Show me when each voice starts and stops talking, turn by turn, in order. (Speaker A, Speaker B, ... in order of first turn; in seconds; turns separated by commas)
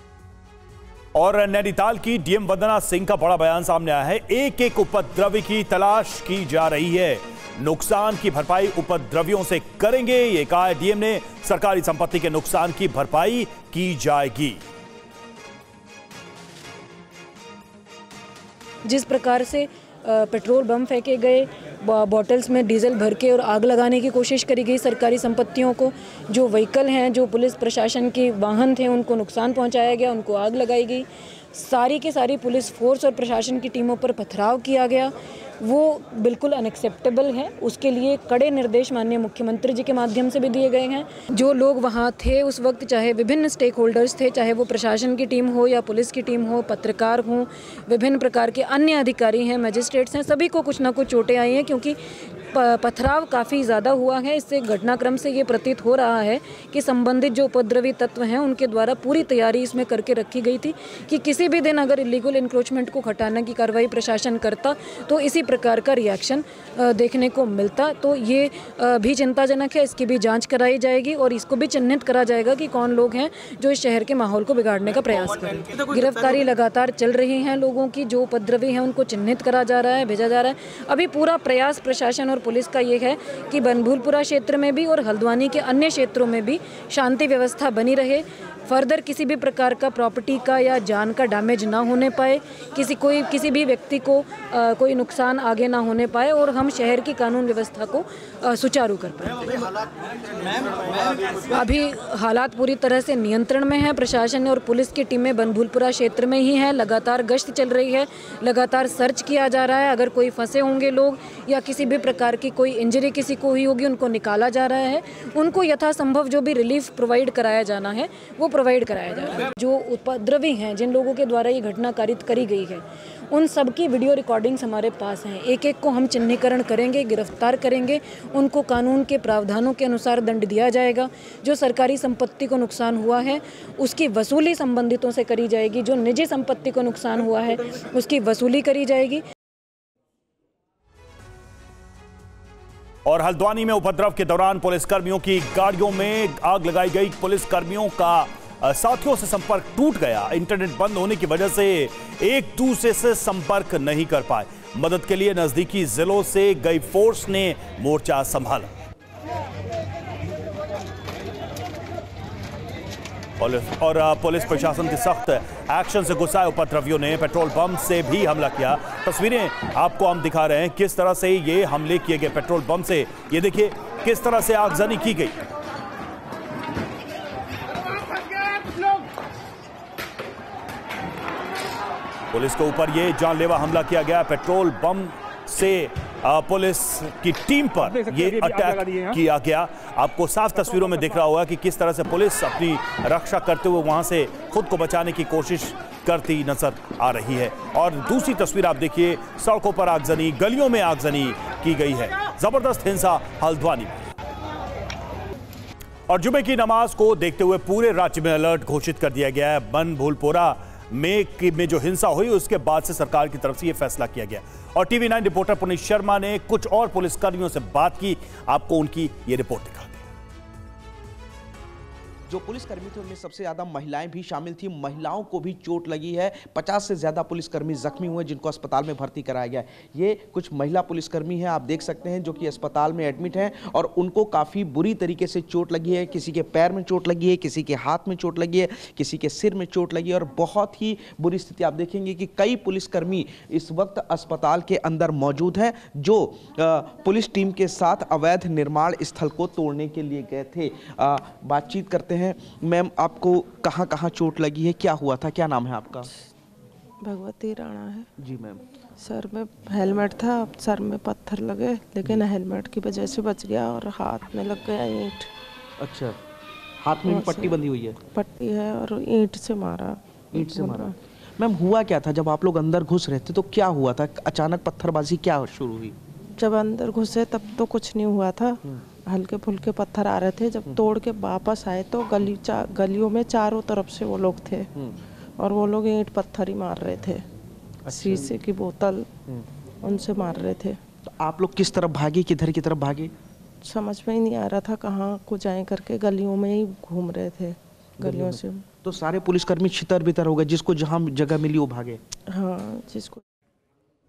Speaker A: 1.1-14.6, Speaker B: 18.9-35.1, Speaker B: 35.6-51.9, Speaker B: 52.5-99.8, Speaker B: 101.3-139.2, Speaker A: 143.1-158.7, Speaker A: 163.4-175.3, Speaker A: 182.3-204.1, Speaker A: 206.1-220.1, Speaker C: 222.3-256.1, Speaker D: 257.0-258.1, Speaker C: 258.2-258.6, Speaker D: 259.0-265.3, Speaker C: 265.8-266.2, Speaker C: 266.8-268.0, Speaker D: 267.0-267.6, Speaker D: 268.1-270.9, Speaker C: 270.3-275.9, Speaker D: 276.4-284.7, Speaker D: 285.4-287.2, Speaker C: 287.9-288.3, Speaker D: 287.9-289.1, Speaker D: 289.8-290.8, Speaker C: 291.1-293.1, Speaker D: 293.6-298.6, Speaker C: 298.0-302.0, Speaker D: 302.3-303.2